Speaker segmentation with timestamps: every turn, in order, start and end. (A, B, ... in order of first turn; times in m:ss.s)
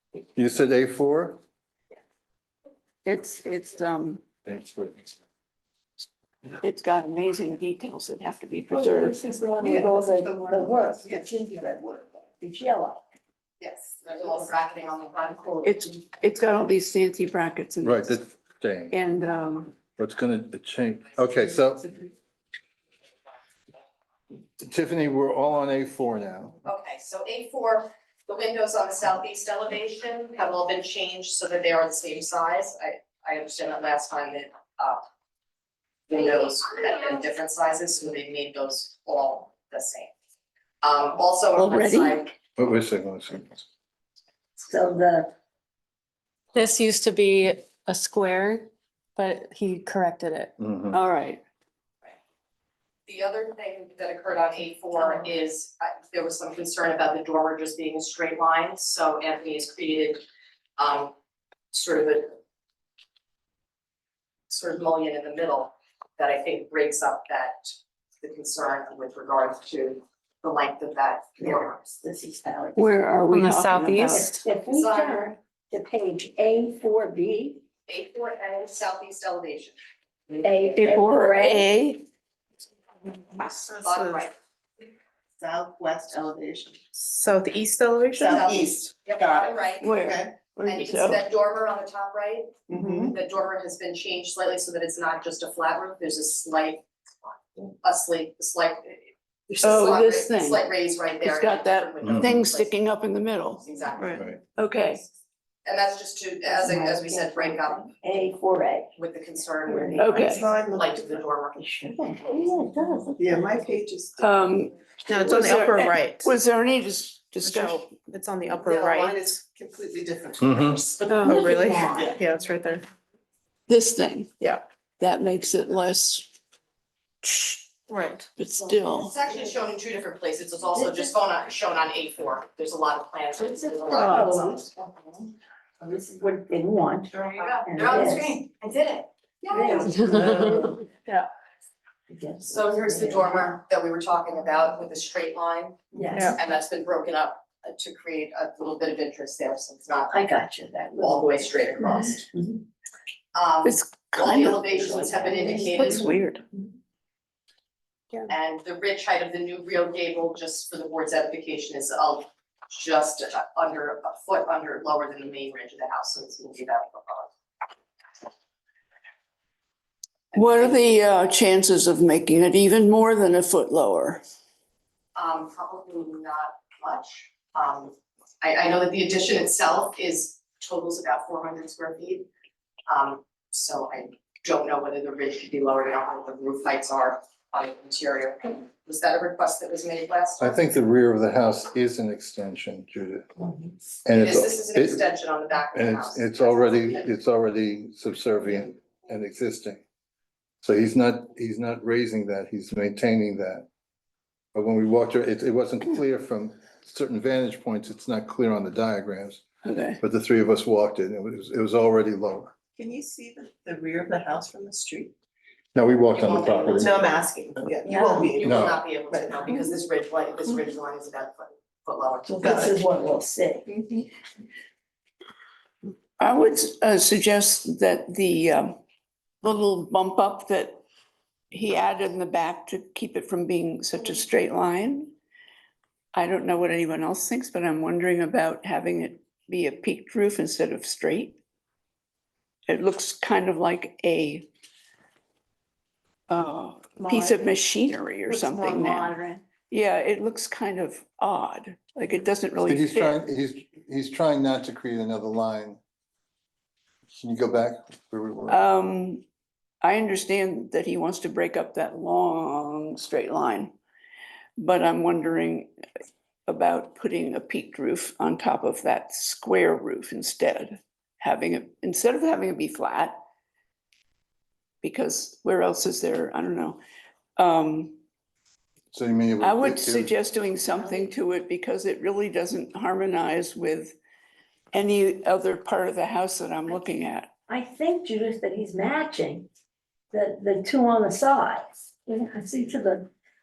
0:00.4-0:01.4 A
0:03.0-0:04.2 B
0:04.4-0:05.1 A
0:06.6-0:10.2 B
0:08.7-0:13.0 C
0:09.6-0:11.1 D
0:13.6-0:15.7 E
0:15.3-0:15.6 C
0:15.6-0:18.2 B
0:17.8-0:19.0 A
0:18.9-0:19.7 B
0:20.0-0:21.9 A
0:24.6-0:26.6 A
0:26.6-0:35.0 E
0:36.1-0:40.1 E
0:40.8-0:42.3 E
0:41.5-0:42.3 B
0:42.6-0:43.6 A
0:44.6-0:45.3 C
0:46.5-0:50.5 F
0:50.6-0:51.0 A
0:50.9-0:51.4 B
0:53.1-1:00.2 E
1:00.8-1:01.1 E
1:01.7-1:02.4 E
1:04.5-1:11.8 E
1:11.9-1:12.8 C
1:12.8-1:14.3 B
1:13.3-1:14.3 F
1:14.0-1:17.6 C
1:14.6-1:15.3 E
1:17.9-1:19.8 E
1:20.4-1:21.7 C
1:20.8-1:22.0 B
1:23.8-1:24.3 E
1:25.4-1:26.9 D
1:28.0-1:28.3 G
1:28.2-1:30.3 D
1:28.2-1:30.0 E
1:29.2-1:31.3 B
1:30.6-1:42.7 E
1:32.7-1:33.2 D
1:39.6-1:40.7 B
1:41.2-1:43.6 B
1:42.0-1:42.4 A
1:43.6-1:44.3 E
1:44.0-1:44.4 A
1:44.6-1:45.0 B
1:45.6-1:47.9 E
1:46.5-1:48.9 C
1:49.0-1:51.6 E
1:49.6-1:50.2 C
1:50.0-1:50.4 B
1:50.1-1:51.2 D
1:51.6-1:53.2 C
1:53.2-1:54.4 D
1:54.2-1:57.9 B
1:55.0-1:56.2 D
1:57.4-1:59.2 G
1:58.6-2:02.2 D
2:00.4-2:00.8 A
2:01.2-2:02.1 C
2:02.2-2:02.8 G
2:03.7-2:04.3 B
2:05.0-2:06.3 B
2:07.2-2:07.6 B
2:07.9-2:08.2 G
2:08.4-2:09.1 B
2:08.9-2:14.7 E
2:13.5-2:14.7 C
2:15.8-2:18.4 C
2:17.1-2:20.3 E
2:19.5-2:20.8 C
2:20.0-2:20.5 F
2:22.1-2:23.6 C
2:22.4-2:30.2 E
2:25.9-2:26.4 C
2:30.1-2:32.6 C
2:31.0-2:32.3 E
2:33.3-2:36.1 E
2:33.6-2:34.7 B
2:34.6-2:36.2 C
2:35.5-2:36.4 B
2:38.3-2:47.3 E
2:50.3-2:50.8 E
2:50.3-2:54.2 B
2:55.2-3:02.3 E
3:02.9-3:10.7 E
3:10.4-3:13.4 A
3:14.0-3:15.0 A
3:14.2-3:17.1 E
3:15.7-3:19.8 A
3:20.6-3:23.7 A
3:24.5-3:29.4 A
3:29.6-3:30.0 B
3:30.0-3:32.5 A
3:32.8-3:35.1 D
3:35.7-3:36.9 A
3:36.1-3:37.1 E
3:36.7-3:39.7 D
3:38.2-3:42.6 E
3:38.4-3:38.8 A
3:42.2-3:43.6 C
3:42.4-3:42.8 D
3:43.7-3:44.0 D
3:46.2-3:48.8 B
3:49.4-3:50.8 B
3:51.5-3:55.1 B
3:56.1-4:01.4 B
4:02.7-4:04.5 B
4:06.3-4:09.2 B
4:07.0-4:07.4 C
4:08.3-4:09.4 C
4:09.7-4:13.2 B
4:12.6-4:15.8 A
4:17.1-4:18.6 A
4:18.5-4:19.2 B
4:19.8-4:23.7 B
4:24.6-4:25.7 B
4:26.5-4:33.2 B
4:34.8-4:36.8 B
4:37.4-4:38.0 B
4:38.9-4:40.1 A
4:39.4-4:44.0 B
4:44.7-4:47.3 B
4:47.5-4:49.5 C
4:50.1-4:53.1 C